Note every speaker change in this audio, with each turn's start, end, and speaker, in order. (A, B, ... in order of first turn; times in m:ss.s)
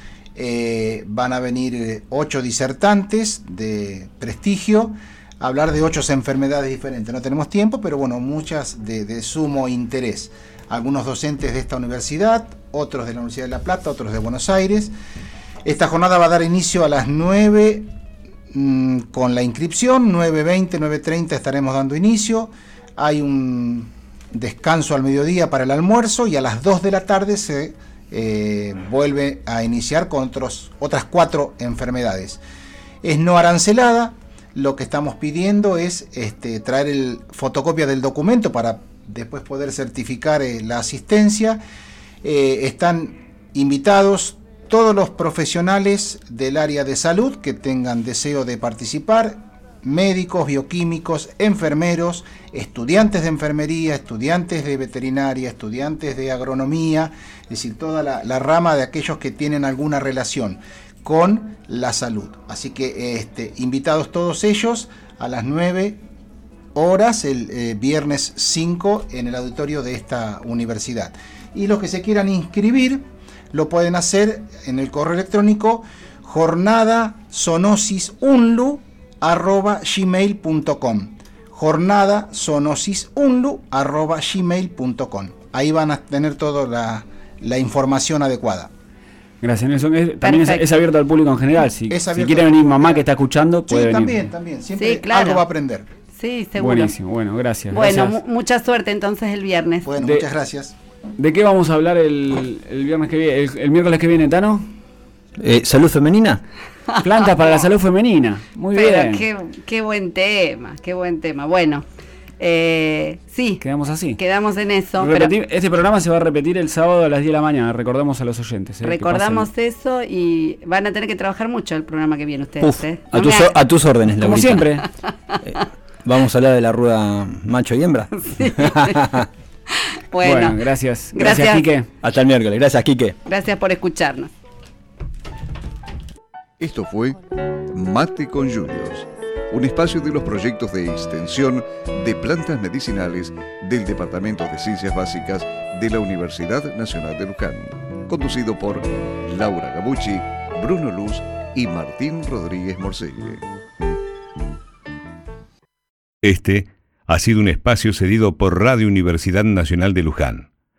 0:00.4-0:14.9 A
0:15.6-0:17.9 A
0:18.5-0:32.4 A
0:33.0-0:41.6 A
0:42.2-1:06.0 A
1:06.8-1:28.7 A
1:29.4-1:34.3 B
1:30.2-1:30.6 C
1:31.9-1:33.1 A
1:33.7-1:35.9 A
1:34.8-1:35.4 C
1:36.2-1:37.0 C
1:36.6-1:38.2 B
1:37.7-1:39.9 C
1:39.8-1:40.8 A
1:40.0-1:40.3 B
1:41.2-1:44.7 B
1:45.4-1:46.4 D
1:47.0-1:49.3 B
1:48.7-1:51.8 C
1:52.4-1:53.6 C
1:53.6-1:54.2 B
1:54.2-1:55.3 C
1:55.0-1:59.5 B
1:58.8-2:03.5 C
2:02.6-2:04.8 D
2:04.2-2:04.8 B
2:05.5-2:09.3 D
2:08.3-2:09.1 C
2:09.8-2:10.6 C
2:10.2-2:11.9 B
2:11.1-2:11.7 C
2:12.0-2:13.2 D
2:13.3-2:14.3 C
2:16.6-2:33.4 E
2:36.2-2:40.5 F